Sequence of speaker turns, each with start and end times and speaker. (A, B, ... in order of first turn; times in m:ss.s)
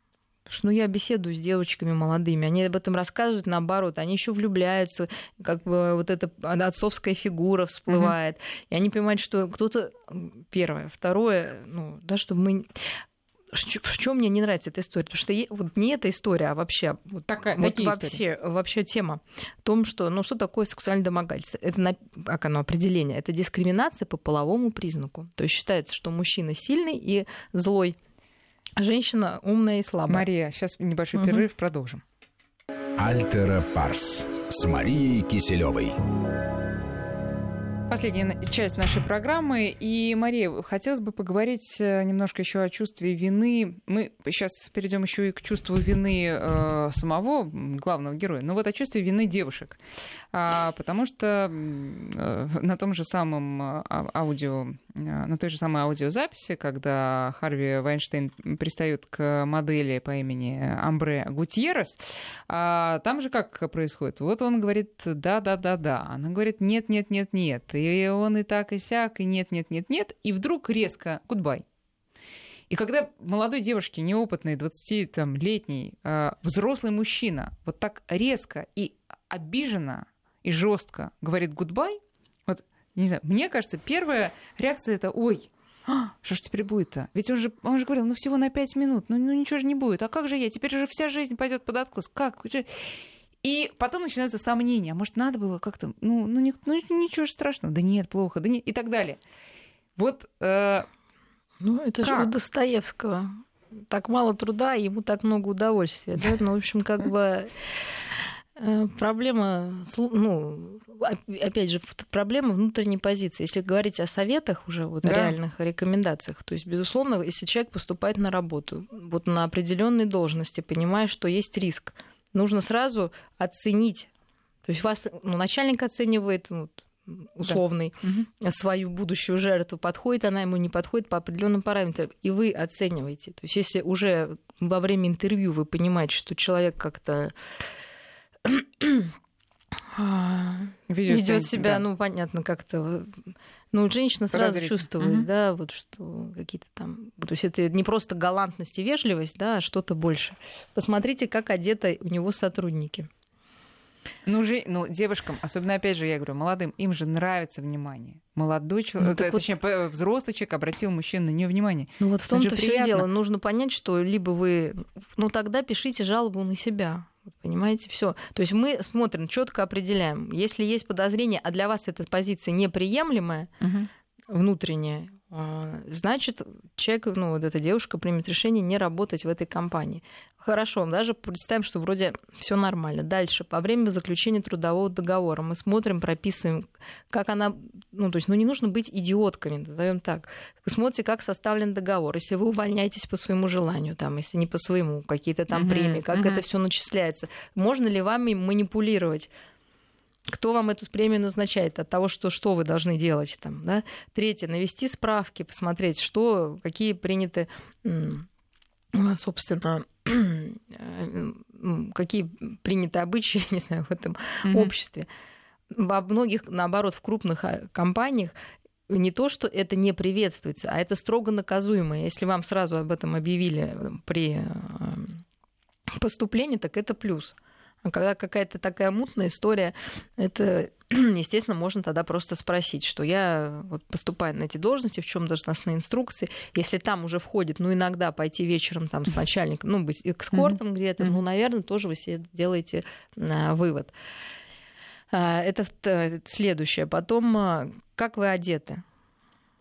0:00.5-0:28.0 A
0:07.9-0:08.1 B
0:17.3-0:18.2 B
0:28.8-0:30.3 A
0:30.1-0:32.0 B
0:31.1-0:31.4 A
0:33.0-0:36.0 C
0:37.9-0:49.8 B
0:50.3-1:11.6 B
1:12.7-1:39.2 B
1:40.0-1:40.9 B
1:41.6-2:04.1 A
1:42.0-1:42.3 B
1:55.0-1:55.3 B
2:04.6-2:17.4 A
2:07.5-2:08.3 B
2:18.4-2:19.1 A
2:19.9-2:33.1 A
2:20.9-2:21.8 B
2:24.3-2:25.2 B
2:34.2-2:43.1 B
2:39.0-2:39.5 A
2:42.0-2:53.5 A
2:53.6-2:53.9 B
2:54.3-3:19.3 A
3:15.5-3:16.4 B
3:20.3-3:28.3 A
3:28.9-3:35.1 A
3:34.4-3:34.7 B
3:35.7-3:38.3 A
3:38.9-3:45.2 A
3:45.9-4:03.9 A
4:05.1-4:08.8 A